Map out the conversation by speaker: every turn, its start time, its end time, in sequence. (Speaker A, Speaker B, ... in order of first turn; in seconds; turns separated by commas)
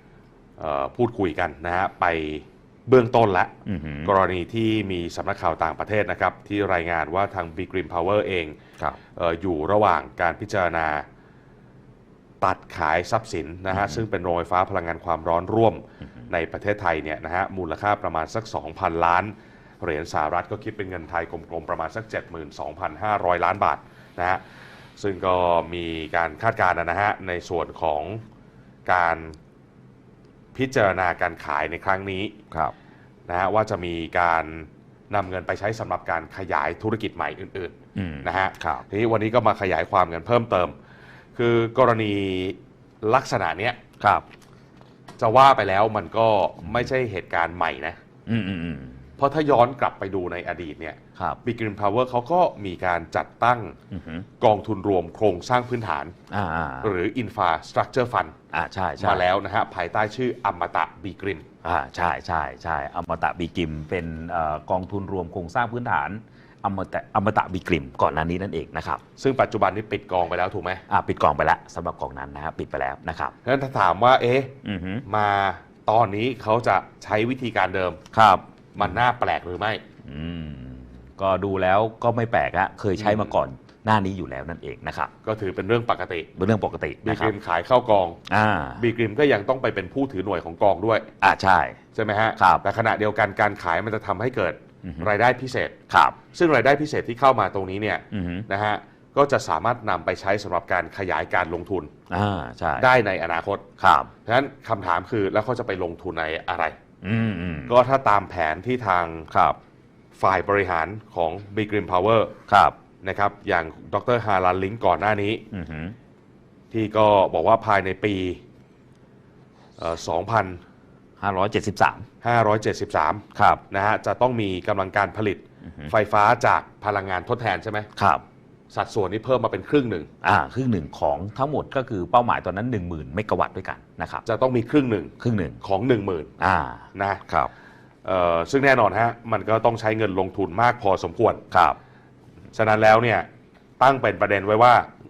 Speaker A: 0.6-3.5, Speaker B: 3.7-4.1, Speaker A: 4.0-8.6, Speaker A: 9.2-11.1, Speaker A: 12.4-24.4, Speaker B: 13.7-14.0, Speaker A: 25.0-28.2, Speaker A: 28.9-29.4, Speaker A: 30.5-32.4, Speaker A: 33.3-40.8, Speaker B: 38.0-38.9, Speaker A: 41.4-43.8, Speaker B: 44.0-44.3, Speaker A: 45.2-48.0, Speaker B: 46.6-46.9, Speaker B: 48.3-49.1, Speaker A: 49.2-53.8, Speaker B: 53.9-54.3, Speaker A: 54.4-56.1, Speaker B: 56.3-56.9, Speaker A: 56.8-58.4, Speaker B: 58.5-59.2, Speaker A: 59.0-61.5, Speaker B: 61.6-69.0, Speaker A: 69.2-70.8, Speaker B: 70.9-73.3, Speaker A: 73.4-74.5, Speaker B: 74.6-75.0, Speaker A: 75.1-78.0, Speaker B: 78.1-79.0, Speaker A: 78.8-79.8, Speaker B: 80.0-85.1, Speaker A: 83.0-83.3, Speaker A: 85.2-86.3, Speaker B: 86.4-87.3, Speaker A: 87.0-88.2, Speaker B: 88.3-88.8, Speaker A: 88.8-91.1, Speaker B: 91.2-91.8, Speaker A: 91.9-95.7, Speaker B: 92.4-92.6, Speaker B: 94.8-95.1, Speaker B: 95.9-96.2, Speaker A: 96.3-101.9, Speaker B: 98.1-98.5, Speaker B: 102.1-102.9, Speaker A: 102.8-103.6, Speaker B: 103.8-104.1, Speaker A: 104.2-106.8, Speaker B: 107.0-107.7, Speaker A: 107.7-109.3, Speaker B: 109.3-109.6, Speaker A: 110.2-112.3, Speaker B: 112.5-112.8, Speaker A: 113.0-115.4, Speaker B: 115.5-116.0, Speaker A: 116.7-118.4, Speaker A: 119.8-120.6, Speaker B: 121.2-122.1, Speaker A: 122.2-127.9, Speaker B: 123.3-123.6, Speaker B: 125.7-125.9, Speaker B: 128.0-128.2, Speaker A: 128.7-130.1, Speaker B: 130.2-134.2, Speaker A: 134.2-136.3, Speaker B: 135.2-135.6, Speaker B: 136.4-137.5, Speaker A: 136.9-137.2, Speaker A: 138.1-141.4, Speaker B: 141.5-141.8, Speaker A: 142.5-143.3, Speaker A: 143.8-144.9